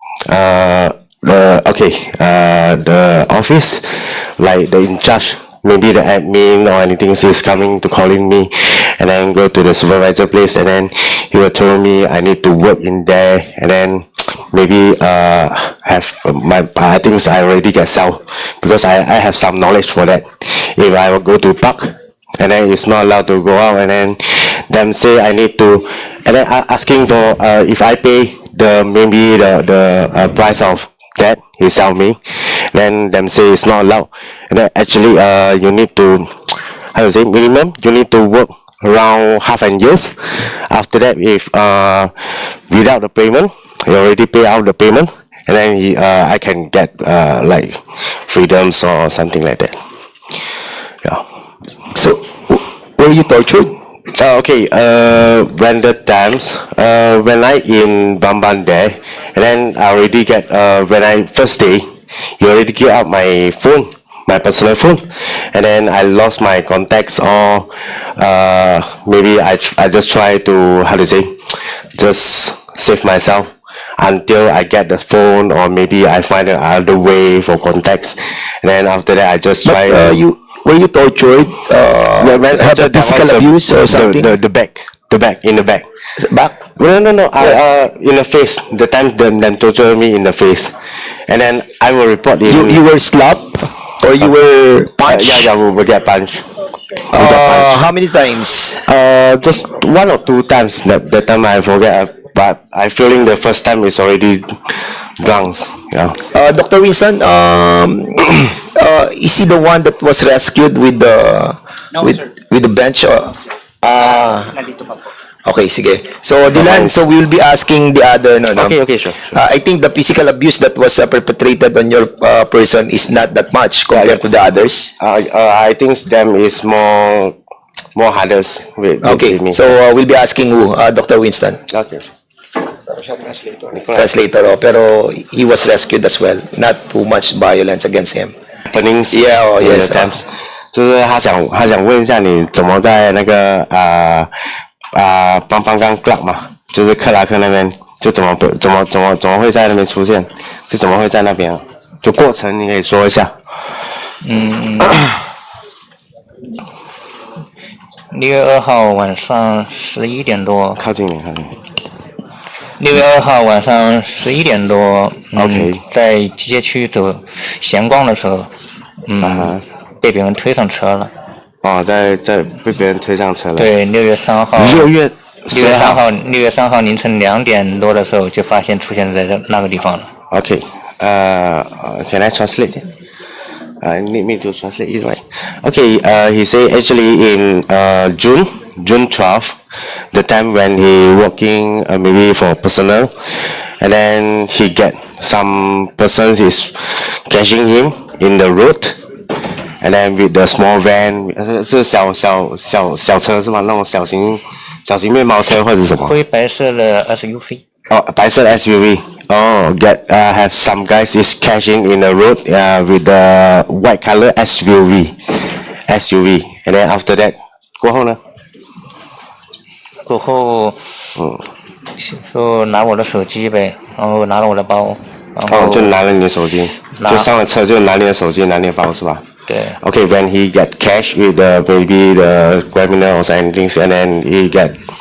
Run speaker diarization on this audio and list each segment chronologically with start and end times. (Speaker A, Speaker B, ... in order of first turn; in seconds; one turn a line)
Speaker A: 0.3-49.8
Speaker B: 51.9-53.8
Speaker A: 54.1-80.2
Speaker B: 79.7-84.3
Speaker A: 82.2-85.8
Speaker B: 86.2-86.6
Speaker A: 86.8-90.7
Speaker A: 91.3-92.8
Speaker B: 92.5-95.5
Speaker A: 95.0-96.5
Speaker A: 97.1-97.8
Speaker B: 97.1-98.8
Speaker A: 98.8-106.2
Speaker B: 106.3-114.5
Speaker B: 115.5-118.8
Speaker A: 116.5-117.0
Speaker A: 118.5-119.4
Speaker B: 119.3-124.9
Speaker A: 123.9-124.2
Speaker A: 125.0-127.4
Speaker A: 127.9-129.7
Speaker B: 129.0-131.6
Speaker A: 131.7-132.0
Speaker A: 133.7-134.1
Speaker B: 133.9-138.3
Speaker A: 138.7-144.3
Speaker B: 139.1-140.1
Speaker A: 144.9-153.3
Speaker C: 154.2-155.1
Speaker C: 158.1-160.8
Speaker A: 160.8-161.5
Speaker C: 162.8-168.5
Speaker A: 165.3-165.8
Speaker C: 169.1-171.1
Speaker A: 169.2-169.6
Speaker A: 171.6-173.7
Speaker C: 173.6-174.9
Speaker A: 174.6-176.0
Speaker C: 175.5-180.1
Speaker A: 180.3-182.9
Speaker A: 183.8-189.6
Speaker A: 190.1-199.0
Speaker A: 199.8-206.2
Speaker C: 206.0-207.6
Speaker A: 207.9-218.2
Speaker C: 220.1-220.8
Speaker A: 221.2-221.4
Speaker C: 222.0-225.9
Speaker A: 225.5-229.2
Speaker C: 227.0-227.3
Speaker C: 229.5-229.7
Speaker A: 229.8-234.8